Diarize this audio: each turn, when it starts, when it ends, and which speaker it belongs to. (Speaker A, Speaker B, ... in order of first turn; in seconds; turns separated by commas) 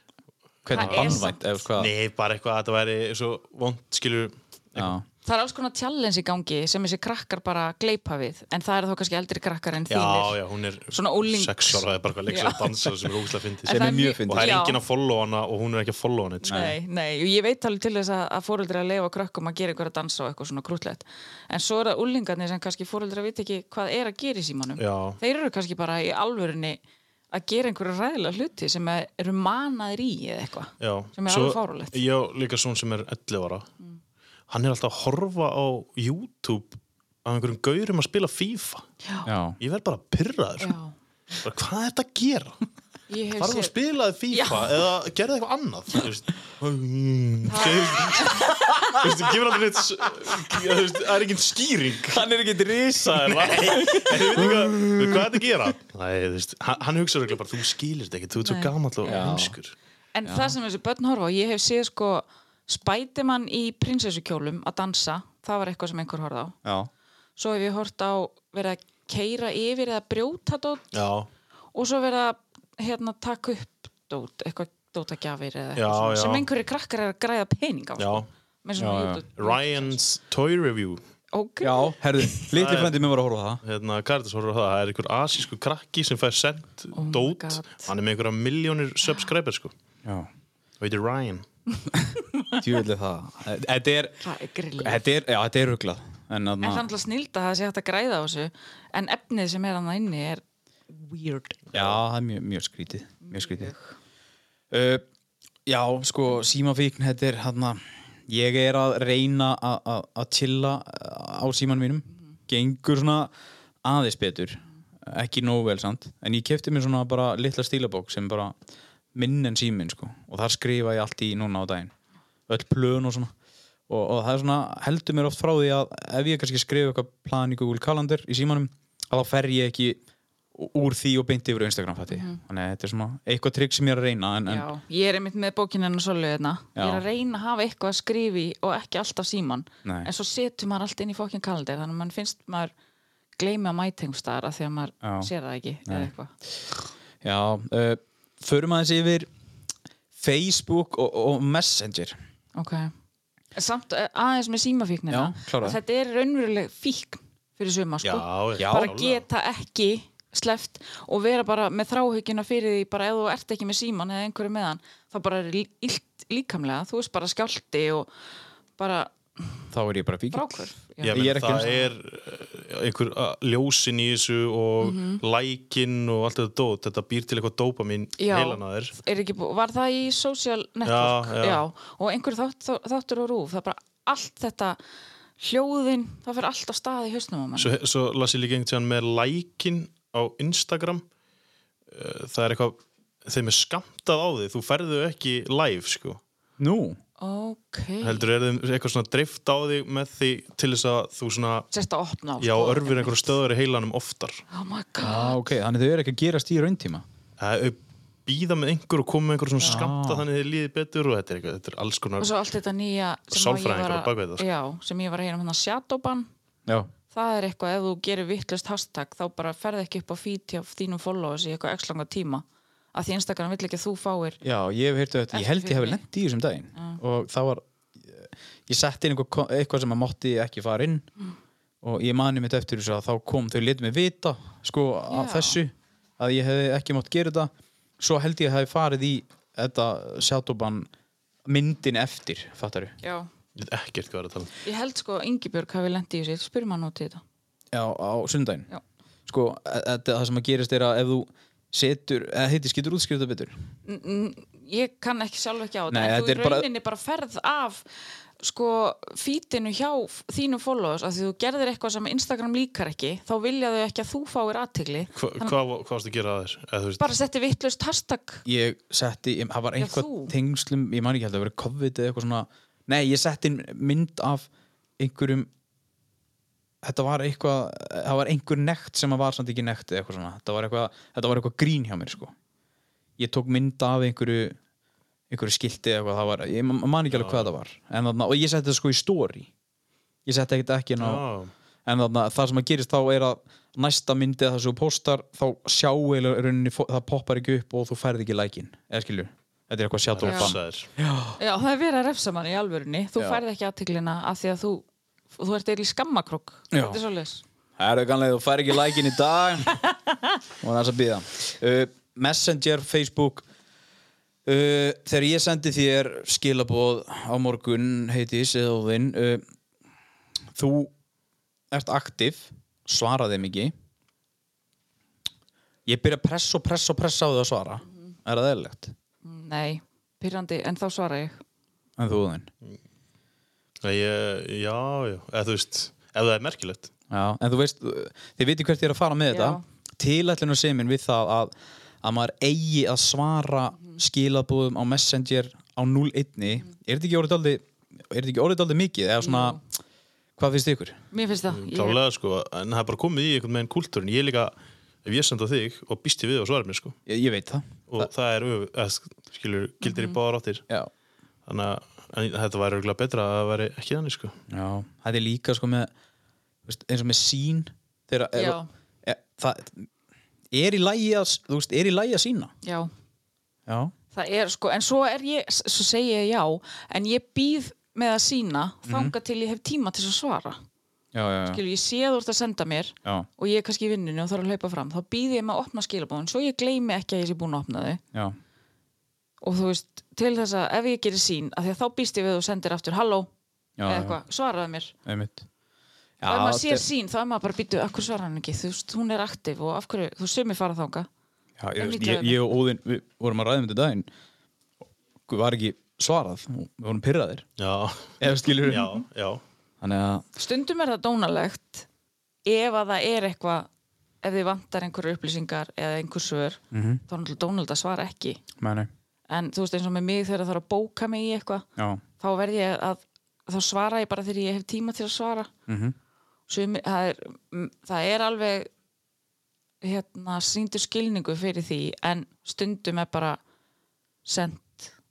Speaker A: 0.7-1.9, Speaker B: 0.7-1.6, Speaker C: 0.7-1.2, Speaker C: 1.8-4.9, Speaker A: 4.8-5.0, Speaker B: 5.2-13.1, Speaker C: 9.9-16.7, Speaker B: 13.7-14.8, Speaker A: 13.7-14.6, Speaker B: 16.4-26.8, Speaker A: 16.5-16.8, Speaker C: 24.8-25.2, Speaker B: 27.3-32.0, Speaker C: 30.8-33.7, Speaker C: 34.5-38.9, Speaker A: 39.3-39.6, Speaker C: 39.6-40.8, Speaker B: 40.6-40.9, Speaker C: 41.4-42.6, Speaker B: 43.1-43.7, Speaker C: 43.4-52.3, Speaker B: 44.3-44.8, Speaker B: 47.5-49.0, Speaker A: 48.6-49.0, Speaker A: 52.1-55.4, Speaker C: 53.0-59.8, Speaker B: 58.4-59.4, Speaker A: 59.0-59.6, Speaker B: 60.1-66.6, Speaker A: 60.2-60.5, Speaker A: 66.6-66.9, Speaker B: 67.4-70.9, Speaker C: 70.9-71.3, Speaker B: 71.7-80.0, Speaker C: 75.8-76.5, Speaker C: 78.0-78.3, Speaker A: 78.8-79.2, Speaker C: 79.4-81.0, Speaker B: 81.3-82.5, Speaker A: 81.6-83.6, Speaker C: 82.5-83.0, Speaker C: 83.6-89.7, Speaker B: 86.9-87.9, Speaker C: 90.8-91.5, Speaker A: 92.5-94.2, Speaker B: 94.2-95.0, Speaker A: 94.8-96.9, Speaker B: 96.6-101.6, Speaker C: 101.7-102.0, Speaker A: 101.7-103.7, Speaker B: 103.3-104.0, Speaker A: 104.7-105.0, Speaker A: 105.7-113.3, Speaker A: 113.8-118.6, Speaker A: 119.2-121.9, Speaker A: 122.5-123.3, Speaker A: 123.9-130.0, Speaker A: 130.6-134.7, Speaker B: 132.1-132.4, Speaker B: 134.5-142.7, Speaker A: 136.8-137.0, Speaker B: 143.4-146.3, Speaker A: 145.0-145.3, Speaker A: 145.9-146.1, Speaker A: 147.2-149.3, Speaker A: 150.2-152.2, Speaker B: 152.6-152.9, Speaker B: 153.6-168.1, Speaker A: 155.1-155.8, Speaker C: 158.0-159.2, Speaker A: 158.6-158.9, Speaker B: 168.8-169.7, Speaker A: 169.7-171.7, Speaker B: 170.3-171.9, Speaker C: 171.0-179.0, Speaker B: 174.8-175.2, Speaker B: 178.2-184.8, Speaker C: 180.8-181.7, Speaker B: 185.4-187.7, Speaker C: 187.6-191.0, Speaker C: 191.9-196.2, Speaker A: 196.6-197.0, Speaker B: 197.2-198.3, Speaker C: 198.0-201.7, Speaker B: 201.7-203.3, Speaker C: 202.4-204.4, Speaker B: 204.5-205.4, Speaker A: 205.0-207.0, Speaker C: 207.4-212.3, Speaker A: 209.6-210.2, Speaker B: 212.2-216.3, Speaker C: 213.3-214.5, Speaker A: 216.7-216.9, Speaker B: 217.1-224.4, Speaker A: 224.4-231.1, Speaker B: 225.3-226.0, Speaker A: 231.8-240.9, Speaker B: 235.1-235.6, Speaker A: 241.5-242.9, Speaker B: 243.0-243.3, Speaker C: 243.6-244.5, Speaker B: 244.6-247.2, Speaker A: 247.7-248.7, Speaker A: 249.3-253.6, Speaker B: 253.9-257.9, Speaker A: 255.9-256.7, Speaker B: 258.4-265.6, Speaker C: 265.1-267.1, Speaker B: 267.0-268.4, Speaker A: 268.4-274.5, Speaker B: 269.8-270.3, Speaker A: 275.0-275.5, Speaker A: 276.8-282.3, Speaker A: 283.2-284.6, Speaker A: 285.3-289.5, Speaker C: 287.1-287.5, Speaker A: 290.3-291.2, Speaker C: 291.0-291.5, Speaker A: 291.9-301.4, Speaker C: 300.1-300.9, Speaker B: 300.2-300.5, Speaker B: 301.4-307.4, Speaker A: 306.7-307.0, Speaker A: 307.8-309.8, Speaker A: 310.6-313.4, Speaker A: 314.5-319.4, Speaker A: 320.6-320.9, Speaker A: 321.7-323.7, Speaker A: 325.9-328.9, Speaker B: 329.2-331.4, Speaker A: 332.0-332.5, Speaker C: 333.8-336.9, Speaker A: 337.1-341.5, Speaker B: 339.3-339.6, Speaker A: 342.0-349.6, Speaker B: 349.2-349.6, Speaker A: 350.4-351.0, Speaker B: 351.1-352.0, Speaker C: 351.5-357.0, Speaker A: 357.1-358.1, Speaker C: 357.9-360.6, Speaker B: 359.8-360.2, Speaker C: 361.5-364.4, Speaker A: 364.5-365.9, Speaker A: 366.7-369.9, Speaker B: 368.4-368.7, Speaker A: 370.5-372.5, Speaker B: 372.6-372.9, Speaker A: 373.7-373.9, Speaker B: 374.1-380.6, Speaker A: 378.9-379.1, Speaker A: 381.1-381.6, Speaker B: 381.5-388.0, Speaker B: 389.4-393.3, Speaker A: 393.8-394.2, Speaker B: 393.9-394.9, Speaker A: 395.1-395.5, Speaker A: 396.2-396.9, Speaker B: 396.3-401.1, Speaker A: 401.6-404.1, Speaker B: 401.8-402.4, Speaker A: 405.3-407.5, Speaker C: 407.6-409.4, Speaker A: 408.2-409.0, Speaker A: 409.8-410.3, Speaker B: 410.4-411.9, Speaker B: 412.4-413.7, Speaker B: 414.2-418.4, Speaker A: 416.7-417.0, Speaker A: 418.6-418.9, Speaker B: 419.3-421.7, Speaker A: 421.8-422.0, Speaker B: 422.2-425.5, Speaker A: 425.7-425.9, Speaker B: 426.5-428.7, Speaker B: 429.8-433.4, Speaker B: 434.3-434.9